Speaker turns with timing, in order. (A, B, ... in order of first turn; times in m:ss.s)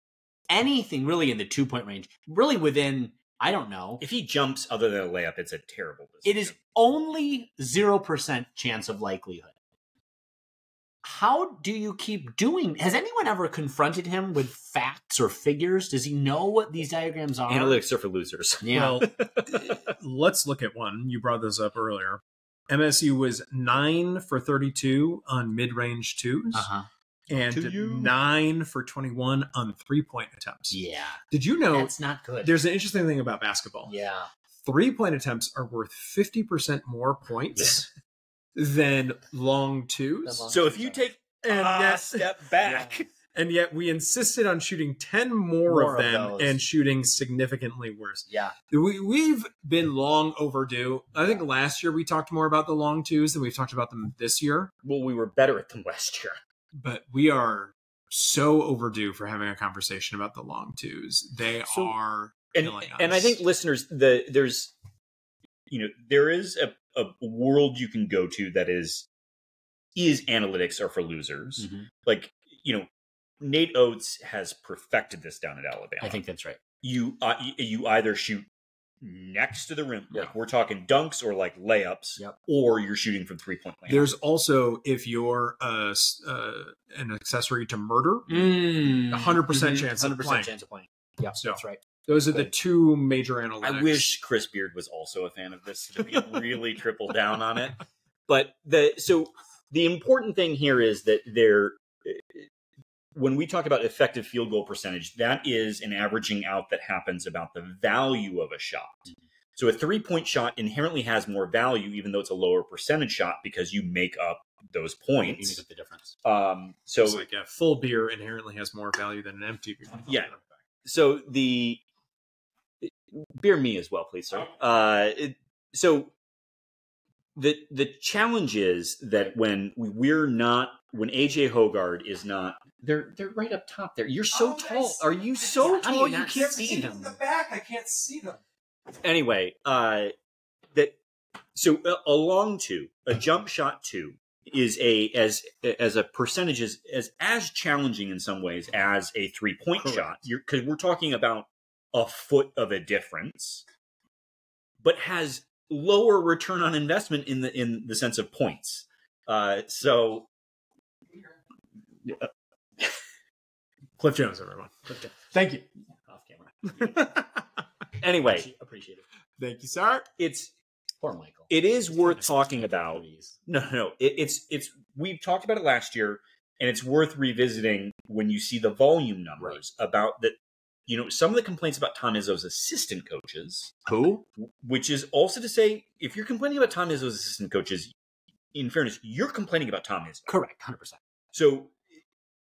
0:00.5-0:04.0 A
0:04.0-0:06.5 B
0:06.2-0:09.6 A
0:11.0-0:17.8 A
0:17.5-0:19.9 B
0:18.6-0:19.1 A
0:18.7-0:26.7 C
0:26.5-0:26.9 A
0:27.3-0:30.8 C
0:27.5-0:28.1 B
0:30.7-0:32.5 A
0:31.3-0:33.9 C
0:33.9-0:34.3 A
0:34.6-0:37.9 C
0:38.6-0:40.5 C
0:40.2-0:41.0 A
0:40.5-0:43.0 B
0:41.2-0:54.7 C
0:45.7-0:46.6 A
0:48.3-0:48.6 A
0:54.8-0:56.4 B
0:56.7-1:03.4 C
1:02.6-1:04.7 B
1:05.7-1:09.1 B
1:10.0-1:12.9 B
1:11.6-1:11.9 A
1:13.4-1:16.2 B
1:16.0-1:16.6 A
1:16.8-1:18.5 B
1:19.0-1:24.1 B
1:23.9-1:28.6 C
1:28.3-1:32.5 A
1:29.1-1:30.5 C
1:31.4-1:34.1 C
1:33.6-1:42.5 B
1:43.1-1:55.6 B
1:55.2-1:56.1 A
1:56.2-1:57.2 B
1:57.0-2:00.5 C
2:00.1-2:00.3 B
2:00.8-2:01.8 B
2:02.8-2:06.1 B
2:07.4-2:16.8 B
2:14.3-2:18.4 C
2:15.6-2:17.1 A
2:19.0-2:20.1 B
2:21.6-2:33.6 B
2:34.8-2:40.3 B
2:44.0-2:45.7 C
2:46.1-2:47.2 A
2:46.8-2:47.4 C
2:48.0-2:48.5 B
2:48.2-2:49.0 A
2:49.4-2:50.1 C
2:50.2-2:50.5 B
2:51.0-2:53.4 A
2:51.5-3:00.4 B
3:00.9-3:03.8 B
3:03.9-3:04.2 A
3:04.6-3:07.9 B
3:08.5-3:10.3 B
3:10.3-3:11.0 A
3:11.3-3:11.8 B